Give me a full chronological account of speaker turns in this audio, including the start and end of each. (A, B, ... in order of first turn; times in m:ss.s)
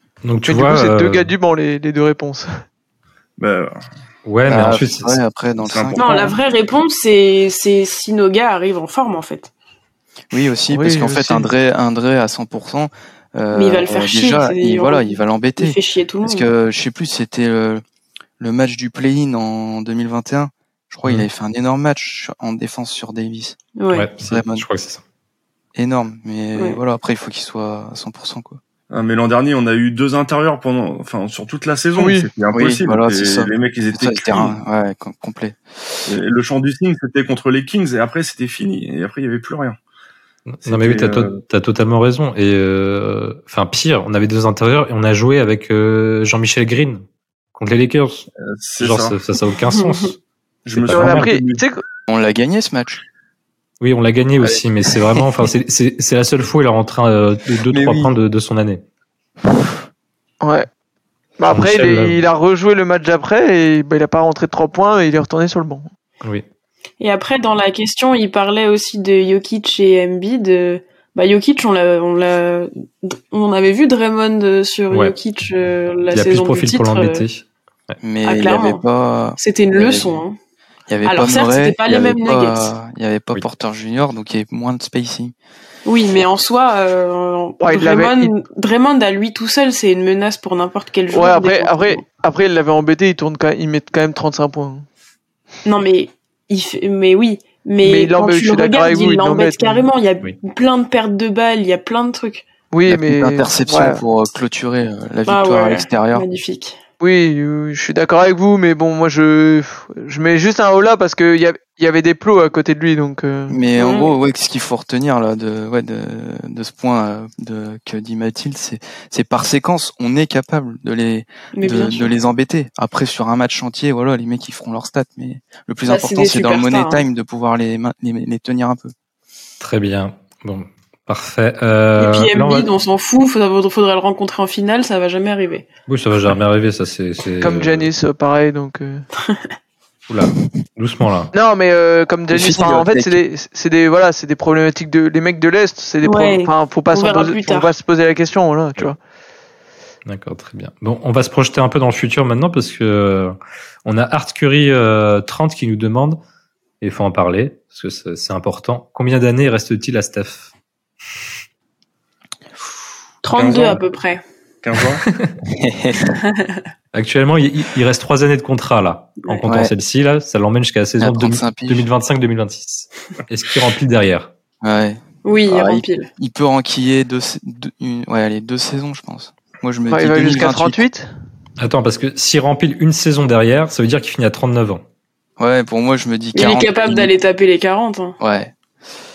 0:00.2-0:01.3 A
0:00.4-0:02.6 B
0:03.4-0:03.8 C
0:04.2-0:05.2 A
0:04.4-0:06.3 D
0:05.6-0:06.3 C
0:06.0-0:09.5 E
0:10.3-0:17.8 D
0:10.7-0:11.5 B
0:13.5-0:16.4 E
0:18.4-0:23.6 D
0:23.8-0:24.1 E
0:23.9-0:25.0 A
0:24.2-0:24.6 D
0:25.7-0:28.6 D
0:28.9-0:34.6 C
0:32.0-0:32.3 B
0:32.5-0:36.1 D
0:36.1-0:39.8 C
0:40.5-0:48.3 A
0:40.6-0:41.4 C
0:48.4-0:49.2 C
0:48.8-0:50.2 A
0:49.6-0:50.1 E
0:50.6-0:51.6 C
0:50.7-0:51.3 A
0:50.9-0:51.8 B
0:52.1-0:53.0 D
0:53.8-0:58.8 A
0:54.4-0:55.5 D
0:57.7-0:58.1 D
1:00.4-1:00.7 B
1:01.4-1:05.9 B
1:01.4-1:02.2 A
1:07.0-1:17.2 E
1:16.1-1:18.0 A
1:18.0-1:20.2 D
1:18.2-1:18.8 E
1:19.4-1:20.4 E
1:20.9-1:25.3 D
1:21.0-1:22.7 E
1:25.8-1:32.0 E
1:27.6-1:28.3 B
1:31.1-1:34.9 B
1:35.6-1:42.4 E
1:37.8-1:39.9 B
1:42.7-1:44.0 B
1:42.9-1:46.2 D
1:45.3-1:46.8 E
1:47.0-1:53.6 B
1:53.5-2:08.9 D
1:53.8-1:54.1 E
2:01.6-2:02.1 E
2:05.9-2:07.0 E
2:09.6-2:12.7 A
2:12.0-2:15.7 E
2:15.9-2:17.9 A
2:17.4-2:19.1 B
2:20.1-2:21.3 A
2:21.3-2:29.0 B
2:22.3-2:23.2 D
2:26.0-2:27.7 E
2:30.0-2:36.2 A
2:36.8-2:40.5 A
2:43.2-2:44.2 E
2:43.3-2:43.8 C
2:44.6-2:45.0 C
2:45.5-2:46.2 D
2:46.2-2:46.6 E
2:46.9-2:54.3 A
2:49.5-2:49.7 D
2:51.0-2:51.9 D
2:54.6-3:00.8 D
2:55.2-2:56.1 E
2:59.9-3:01.1 B
3:01.6-3:04.8 A
3:05.4-3:07.1 D
3:06.3-3:08.2 E
3:08.2-3:08.6 D